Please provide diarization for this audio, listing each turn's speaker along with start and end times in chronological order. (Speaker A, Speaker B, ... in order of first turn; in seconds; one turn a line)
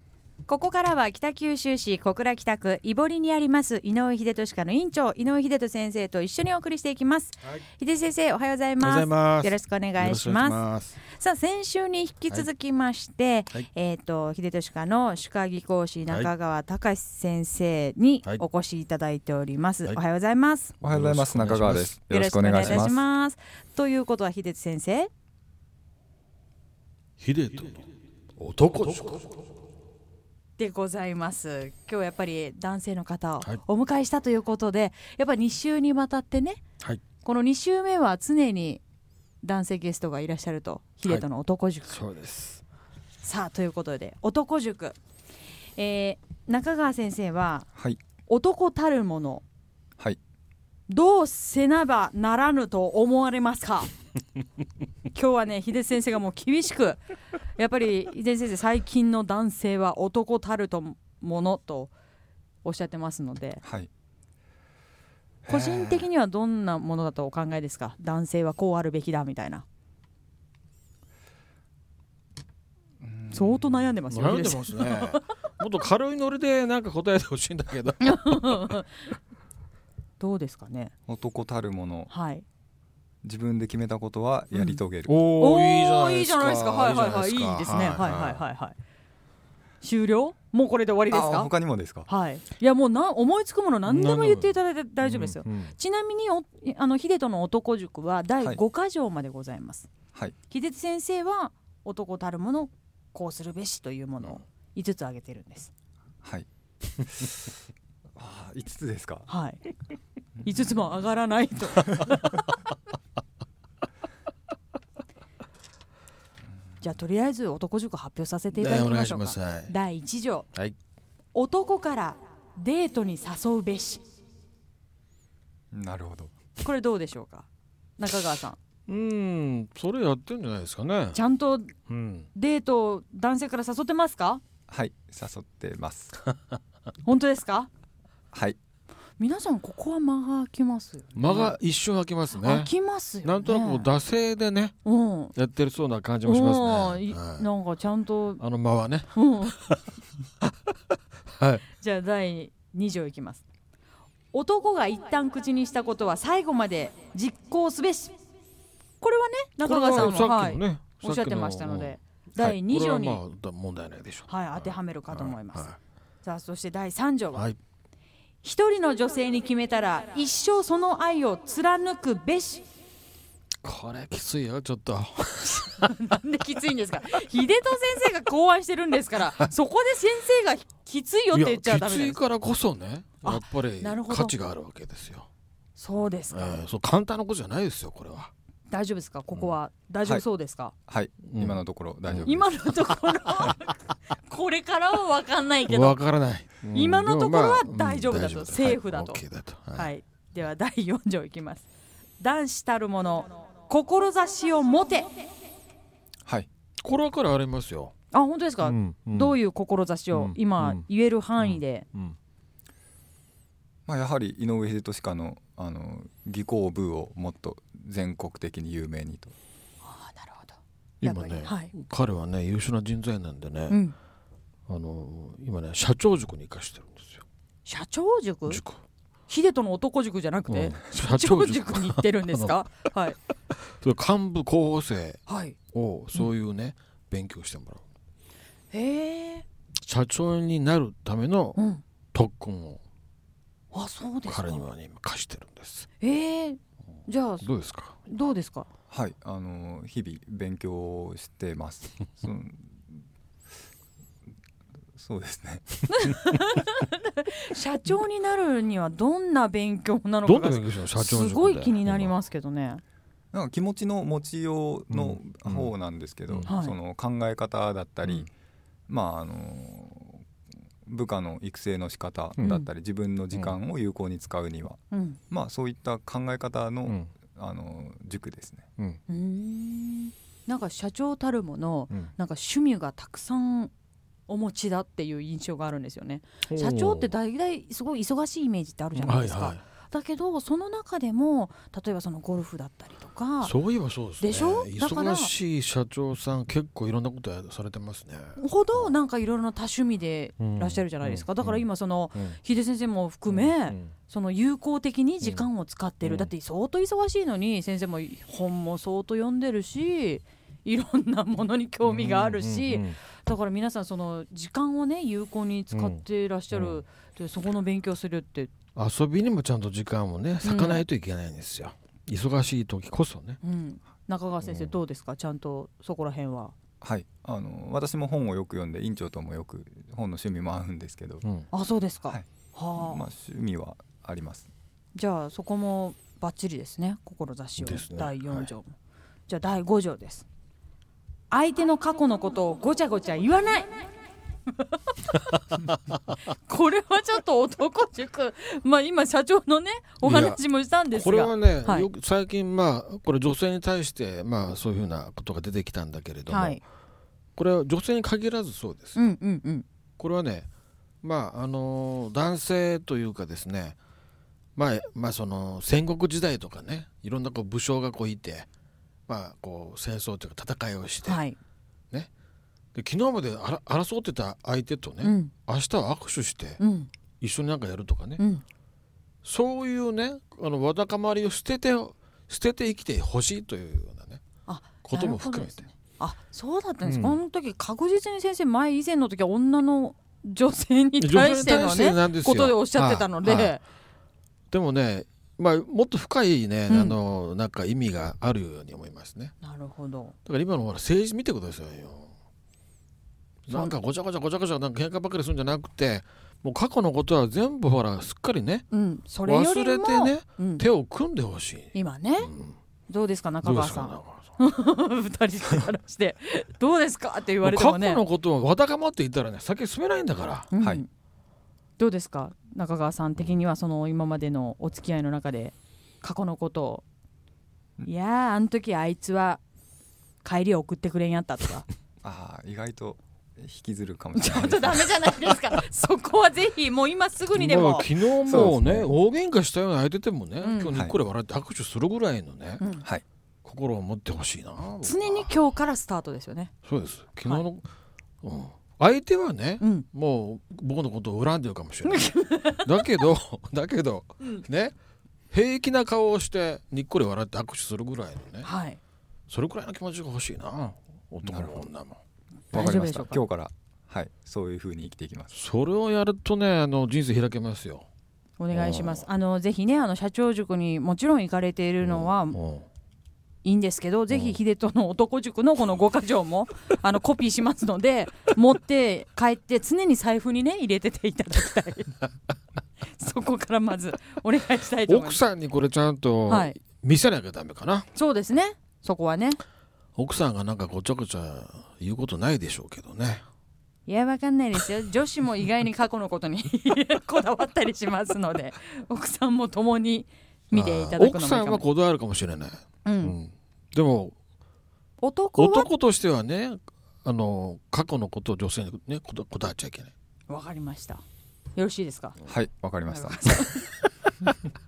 Speaker A: 0.5-20.7
Speaker B: 8.8-11.0
Speaker B: 20.8-22.0
Speaker C: 20.8-23.0
Speaker A: 22.1-25.1
Speaker B: 27.2-29.3
Speaker A: 30.6-36.6
Speaker A: 37.2-38.8
Speaker A: 39.4-42.0
Speaker B: 41.9-42.6
Speaker A: 43.2-45.0
Speaker A: 45.8-47.7
Speaker A: 48.3-49.4
Speaker A: 50.9-53.9
Speaker A: 55.1-57.0
Speaker A: 57.6-61.9
Speaker A: 62.6-63.6
Speaker C: 63.6-63.9
Speaker C: 65.4-66.1
Speaker A: 65.5-69.7
Speaker C: 73.0-73.9
Speaker A: 73.3-75.2
Speaker B: 74.1-78.8
Speaker A: 78.0-78.9
Speaker A: 80.2-80.9
Speaker C: 81.1-82.1
Speaker A: 82.1-82.5
Speaker C: 83.2-85.2
Speaker B: 85.0-88.5
Speaker A: 85.4-88.8
Speaker A: 89.8-91.5
Speaker C: 91.1-92.1
Speaker A: 92.1-99.9
Speaker B: 93.9-95.8
Speaker A: 100.5-105.7
Speaker C: 107.0-107.5
Speaker C: 108.2-109.3
Speaker A: 109.3-109.6
Speaker A: 110.4-112.4
Speaker A: 116.8-120.5
Speaker B: 118.6-119.7
Speaker A: 121.3-124.0
Speaker C: 125.7-126.3
Speaker A: 126.6-127.5
Speaker A: 128.0-128.6
Speaker B: 128.9-131.2
Speaker A: 131.1-131.7
Speaker B: 131.9-132.3
Speaker A: 132.3-134.4
Speaker C: 134.7-136.1
Speaker A: 137.1-137.7
Speaker A: 139.2-141.6
Speaker B: 141.2-144.8
Speaker A: 142.3-143.9
Speaker A: 144.8-145.3
Speaker B: 145.3-147.5
Speaker A: 146.2-148.4
Speaker B: 148.4-149.8
Speaker A: 149.1-149.6
Speaker B: 151.4-151.6
Speaker A: 151.8-153.4
Speaker A: 154.3-158.1
Speaker A: 159.0-163.2
Speaker B: 159.6-162.0
Speaker B: 162.7-165.8
Speaker A: 164.3-165.7
Speaker A: 166.2-167.5
Speaker A: 168.4-172.7
Speaker B: 173.6-175.8
Speaker A: 175.4-182.2
Speaker B: 181.3-185.3
Speaker A: 183.2-184.4
Speaker A: 185.8-186.6
Speaker B: 186.3-188.3
Speaker A: 188.7-190.7
Speaker C: 190.9-192.9
Speaker B: 191.2-192.3
Speaker A: 192.3-196.0
Speaker B: 195.7-199.9
Speaker A: 196.7-199.2
Speaker A: 199.8-201.7
Speaker A: 202.2-205.3
Speaker B: 206.8-207.9
Speaker A: 208.1-211.9
Speaker B: 208.6-209.4
Speaker B: 210.1-210.8
Speaker B: 211.4-212.2
Speaker C: 213.9-219.3
Speaker A: 219.8-221.7
Speaker B: 221.0-223.8
Speaker A: 223.7-224.0
Speaker B: 224.7-227.2
Speaker A: 227.7-228.6
Speaker B: 228.5-228.8
Speaker A: 229.3-233.2
Speaker B: 230.5-232.6
Speaker B: 233.7-235.2
Speaker A: 235.3-235.6
Speaker B: 235.7-237.8
Speaker A: 238.7-239.4
Speaker B: 239.9-241.6
Speaker A: 241.6-241.8
Speaker B: 242.1-242.8
Speaker A: 243.7-244.6
Speaker B: 244.3-245.9
Speaker A: 246.0-247.5
Speaker B: 247.4-248.0
Speaker A: 248.0-248.7
Speaker C: 248.9-253.0
Speaker C: 254.9-255.8
Speaker A: 255.9-262.8
Speaker B: 260.2-262.1
Speaker C: 263.3-268.3
Speaker B: 264.9-265.7
Speaker A: 266.5-266.8
Speaker C: 268.9-270.2
Speaker C: 270.9-278.7
Speaker B: 272.4-272.6
Speaker A: 274.9-275.2
Speaker A: 279.1-283.7
Speaker A: 284.3-293.6
Speaker B: 286.5-287.1
Speaker B: 288.9-289.6
Speaker B: 293.4-298.9
Speaker A: 294.2-295.3
Speaker A: 298.4-318.5
Speaker B: 300.4-302.4
Speaker B: 303.3-303.9
Speaker B: 305.2-305.5
Speaker B: 306.0-306.3
Speaker B: 311.9-313.0
Speaker B: 315.7-316.8
Speaker B: 318.8-323.4
Speaker A: 320.4-320.8
Speaker A: 323.4-326.5
Speaker B: 324.4-324.7
Speaker C: 326.8-331.2
Speaker A: 331.5-333.1
Speaker C: 332.1-334.5
Speaker A: 334.9-338.8
Speaker B: 337.6-338.5
Speaker A: 339.3-340.3
Speaker A: 341.3-343.9
Speaker A: 344.6-345.1
Speaker A: 346.3-351.9
Speaker B: 350.0-350.4
Speaker B: 350.9-356.6
Speaker A: 356.3-356.6
Speaker B: 357.4-359.0
Speaker A: 358.9-359.6
Speaker B: 360.0-360.5
Speaker B: 361.0-363.8
Speaker B: 364.6-368.5
Speaker B: 369.1-371.2
Speaker A: 371.1-371.4
Speaker B: 372.8-376.6
Speaker A: 375.0-375.3
Speaker A: 376.6-376.9
Speaker B: 377.2-378.2
Speaker A: 378.2-378.4
Speaker B: 379.2-384.2
Speaker A: 384.5-393.6
Speaker B: 384.8-385.6
Speaker B: 386.8-387.2
Speaker B: 391.0-393.6
Speaker B: 394.5-399.3
Speaker A: 396.7-396.9
Speaker A: 399.4-400.1
Speaker B: 400.3-402.1
Speaker B: 403.5-408.7
Speaker A: 408.7-410.6
Speaker B: 409.2-412.6
Speaker A: 411.7-412.3
Speaker A: 412.9-418.0
Speaker B: 413.4-414.3
Speaker B: 417.4-420.5
Speaker A: 420.5-420.9
Speaker A: 421.8-426.8
Speaker A: 427.9-429.4
Speaker A: 430.2-431.6
Speaker C: 432.0-434.9
Speaker A: 434.1-438.6
Speaker B: 437.3-442.6
Speaker C: 438.3-438.9
Speaker A: 440.4-440.8
Speaker A: 442.6-442.9
Speaker B: 443.4-445.3
Speaker A: 444.8-446.5
Speaker B: 446.6-447.7
Speaker B: 448.2-454.7
Speaker A: 449.6-449.9
Speaker A: 451.9-452.7
Speaker B: 455.3-458.5
Speaker A: 458.4-458.8
Speaker B: 459.3-462.0
Speaker C: 461.2-461.7
Speaker A: 462.5-463.2
Speaker C: 462.5-465.3
Speaker B: 465.3-467.9
Speaker A: 468.4-472.4
Speaker B: 468.5-469.1
Speaker B: 471.8-472.7
Speaker A: 473.4-482.0
Speaker B: 474.1-474.4
Speaker A: 482.8-485.2
Speaker B: 484.9-487.9
Speaker A: 486.3-486.6
Speaker A: 487.9-489.4
Speaker B: 490.0-493.2
Speaker A: 493.9-501.6
Speaker B: 500.5-504.2
Speaker A: 502.9-503.2
Speaker A: 505.0-505.7
Speaker B: 505.4-509.9
Speaker A: 510.3-511.0
Speaker A: 511.6-512.2
Speaker C: 512.3-513.4
Speaker A: 512.9-513.7